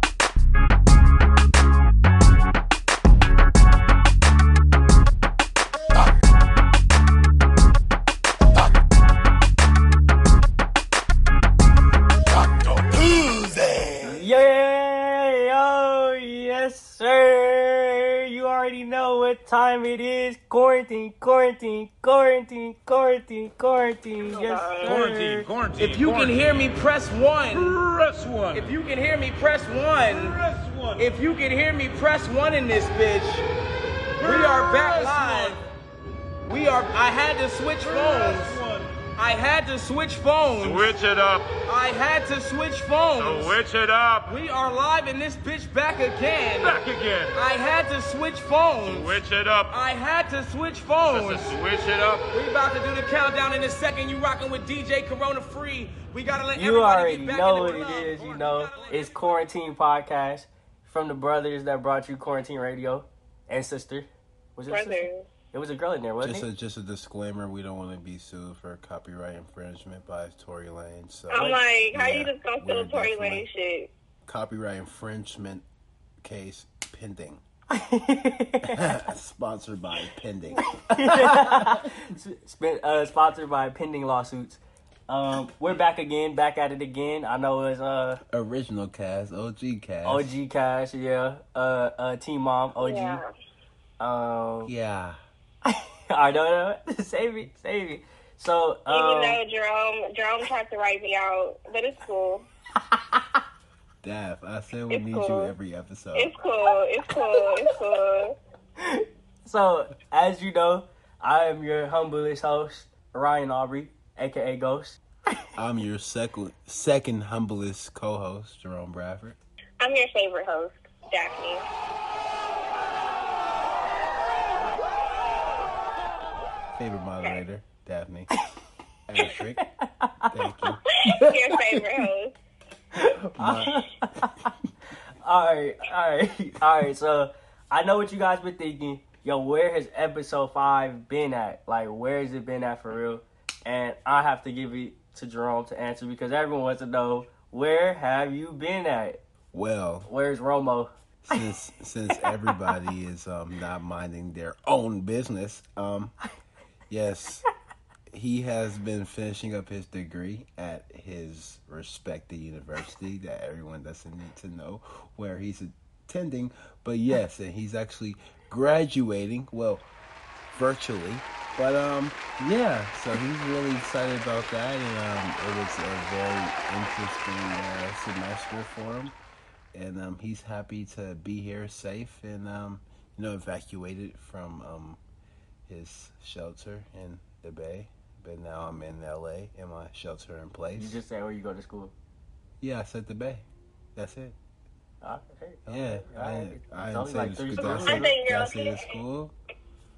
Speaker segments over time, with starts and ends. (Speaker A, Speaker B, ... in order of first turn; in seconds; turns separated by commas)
Speaker A: 14.0-25.5, Speaker B: 24.2-25.0, Speaker C: 24.9-26.6, Speaker D: 24.9-27.8, Speaker C: 27.5-28.7, Speaker D: 28.5-30.4, Speaker C: 30.2-30.9, Speaker D: 30.9-33.5, Speaker D: 34.2-35.6, Speaker C: 34.2-35.6, Speaker D: 36.4-43.6, Speaker C: 37.9-38.8, Speaker C: 40.6-41.5, Speaker C: 43.2-44.3, Speaker D: 44.2-59.0, Speaker C: 46.6-47.3, Speaker C: 48.9-49.7, Speaker C: 51.0-52.2, Speaker A: 56.5-66.5, Speaker B: 64.7-65.3, Speaker E: 66.2-73.5, Speaker B: 71.3-73.9, Speaker A: 71.3-71.6, Speaker E: 74.2-75.6, Speaker E: 76.2-77.4, Speaker A: 77.7-78.9, Speaker E: 78.6-80.6, Speaker A: 80.8-88.2, Speaker E: 81.1-81.8, Speaker E: 88.3-90.3, Speaker A: 90.0-93.2, Speaker B: 92.8-93.3, Speaker A: 94.0-94.7, Speaker E: 94.7-95.2, Speaker A: 95.6-99.4, Speaker B: 98.9-102.5, Speaker A: 102.9-103.2, Speaker E: 104.0-106.3, Speaker B: 104.9-105.5, Speaker B: 106.2-108.3, Speaker A: 108.8-115.0, Speaker E: 115.6-119.4, Speaker B: 119.8-121.6, Speaker E: 126.7-128.3, Speaker E: 129.1-129.6, Speaker A: 129.6-130.3, Speaker E: 130.3-131.8, Speaker B: 131.0-132.3, Speaker A: 132.9-134.5, Speaker E: 133.3-133.9, Speaker A: 135.2-149.2, Speaker E: 149.5-150.1, Speaker A: 150.1-151.4, Speaker E: 151.2-156.2, Speaker A: 152.1-152.6, Speaker E: 156.9-157.4, Speaker E: 158.1-169.8, Speaker E: 170.5-179.1, Speaker E: 179.7-185.0, Speaker E: 185.7-191.0, Speaker A: 190.8-191.9, Speaker E: 192.6-194.3, Speaker A: 195.0-198.1, Speaker E: 195.7-199.3, Speaker B: 197.6-199.0